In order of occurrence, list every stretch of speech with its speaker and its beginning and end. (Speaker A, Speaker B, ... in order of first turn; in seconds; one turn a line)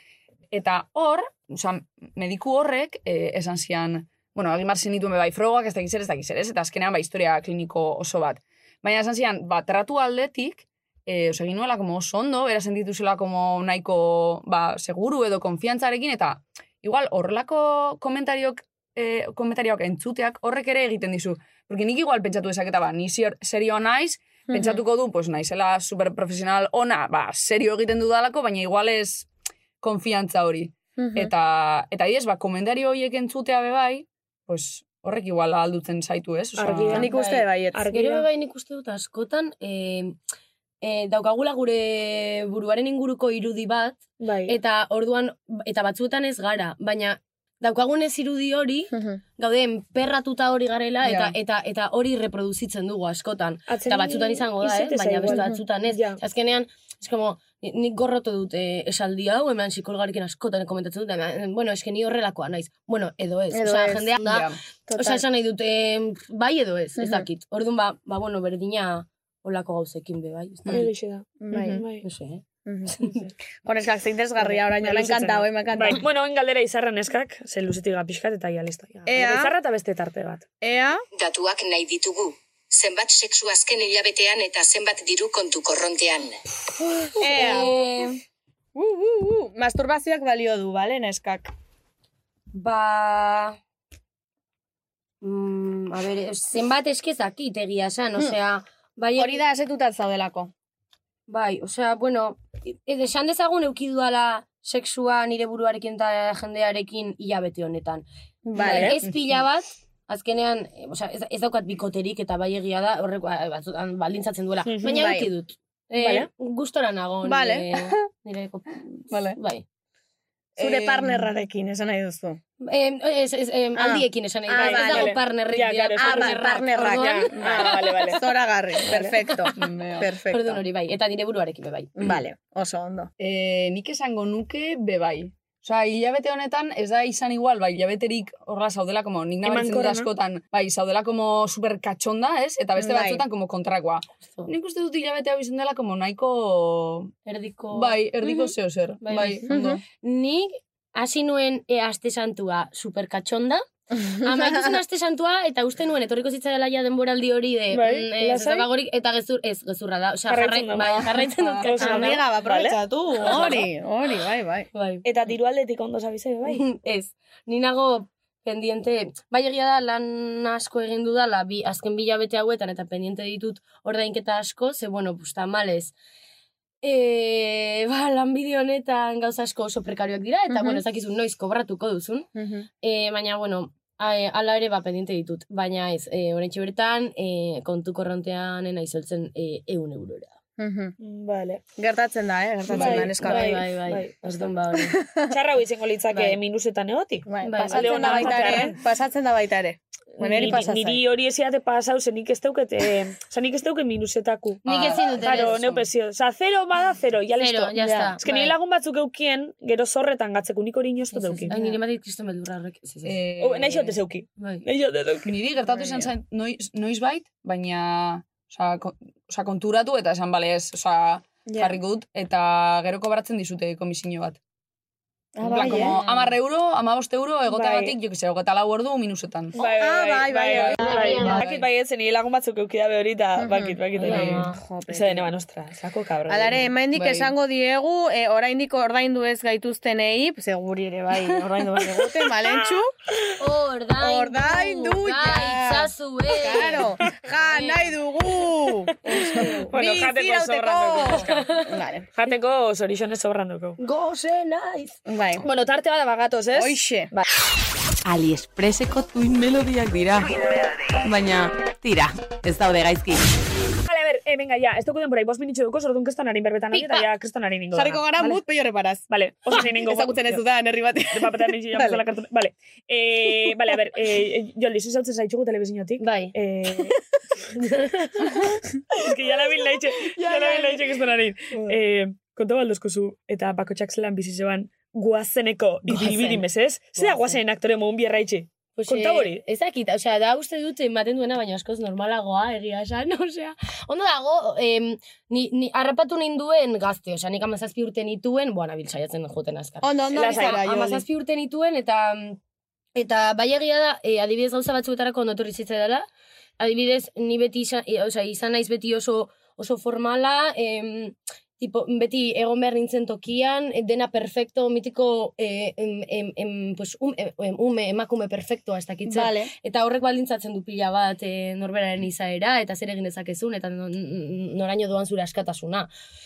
Speaker A: 0.5-29.3
Speaker B: 24.5-24.8
Speaker A: 29.8-37.1
Speaker B: 31.0-31.3
Speaker C: 36.6-37.1
Speaker B: 36.9-37.8
Speaker D: 37.0-40.1
Speaker C: 37.7-38.2
Speaker D: 40.8-70.8
Speaker C: 44.2-44.5
Speaker B: 48.9-49.2
Speaker A: 51.0-51.3
Speaker C: 53.7-56.2
Speaker B: 63.5-64.2
Speaker A: 64.2-64.6
Speaker B: 64.9-65.2
Speaker B: 67.0-67.2
Speaker C: 70.7-72.0
Speaker B: 71.4-71.8
Speaker D: 71.5-72.4
Speaker B: 72.7-73.1
Speaker D: 73.0-73.3
Speaker B: 73.6-76.0
Speaker C: 74.4-80.4
Speaker B: 79.1-79.5
Speaker B: 80.6-81.0
Speaker E: 81.1-86.4
Speaker D: 87.0-88.2
Speaker B: 87.2-87.7
Speaker B: 88.7-91.5
Speaker D: 92.5-93.6
Speaker D: 95.2-99.4
Speaker B: 99.2-100.5
Speaker D: 101.3-108.0
Speaker B: 108.4-109.0
Speaker D: 108.6-119.6
Speaker C: 108.6-109.0
Speaker C: 114.7-115.0
Speaker B: 114.8-115.3
Speaker C: 116.0-116.3
Speaker B: 117.2-117.8
Speaker A: 119.1-119.4
Speaker A: 120.6-121.2
Speaker B: 120.6-122.4
Speaker D: 122.6-127.7
Speaker B: 123.8-125.2
Speaker C: 124.5-129.2
Speaker B: 126.0-130.6
Speaker A: 129.5-130.1
Speaker D: 130.3-131.9
Speaker B: 131.9-133.1
Speaker A: 133.2-147.1
Speaker C: 139.4-140.1
Speaker B: 142.8-143.2
Speaker D: 147.2-148.5
Speaker A: 147.7-149.8
Speaker D: 149.0-162.2
Speaker B: 149.5-149.8
Speaker B: 154.1-154.7
Speaker C: 157.7-158.7
Speaker C: 160.3-163.6
Speaker A: 161.3-161.6
Speaker B: 161.7-164.7
Speaker D: 163.2-163.7
Speaker D: 164.7-165.1
Speaker C: 165.0-166.6
Speaker D: 166.5-175.9
Speaker D: 176.8-182.3
Speaker B: 180.5-180.8
Speaker B: 182.3-182.7
Speaker D: 182.8-190.3
Speaker B: 190.6-190.9
Speaker C: 191.0-191.6
Speaker B: 191.8-193.6
Speaker C: 192.7-194.5
Speaker D: 192.8-194.9
Speaker B: 195.0-195.3
Speaker C: 195.3-198.8
Speaker B: 196.1-196.4
Speaker B: 197.2-201.0
Speaker D: 197.4-198.7
Speaker C: 200.2-211.6
Speaker D: 204.6-205.8
Speaker A: 204.6-205.6
Speaker D: 207.4-208.5
Speaker B: 207.8-208.1
Speaker D: 211.1-213.2
Speaker B: 211.5-211.8
Speaker A: 213.0-213.9
Speaker C: 213.4-215.3
Speaker D: 214.4-214.6
Speaker A: 215.2-224.4
Speaker B: 215.7-216.1
Speaker B: 221.5-221.8
Speaker B: 225.3-225.9
Speaker A: 225.4-229.5
Speaker D: 225.5-226.3
Speaker C: 229.6-236.7
Speaker B: 229.6-231.3
Speaker A: 230.5-231.7
Speaker D: 230.8-231.4
Speaker B: 233.4-235.3
Speaker D: 234.0-234.6
Speaker A: 234.1-234.4
Speaker B: 236.3-242.9
Speaker A: 236.9-237.3
Speaker D: 243.4-247.9
Speaker B: 244.0-252.1
Speaker C: 249.1-251.6
Speaker C: 252.1-253.8
Speaker D: 253.8-255.0
Speaker B: 255.1-255.4
Speaker C: 255.4-257.2
Speaker B: 256.5-257.1
Speaker F: 258.0-260.4
Speaker F: 260.9-263.2
Speaker C: 263.9-268.4
Speaker B: 266.7-267.0
Speaker B: 267.7-272.0
Speaker C: 269.1-270.4
Speaker C: 271.1-277.0
Speaker B: 273.3-273.5
Speaker D: 276.0-276.3
Speaker D: 277.6-278.3
Speaker C: 278.9-289.4
Speaker B: 280.1-280.8
Speaker B: 285.9-286.4
Speaker D: 288.8-302.4
Speaker B: 299.8-301.0
Speaker C: 300.1-300.6
Speaker D: 302.9-306.1
Speaker D: 306.6-325.9
Speaker B: 319.1-319.5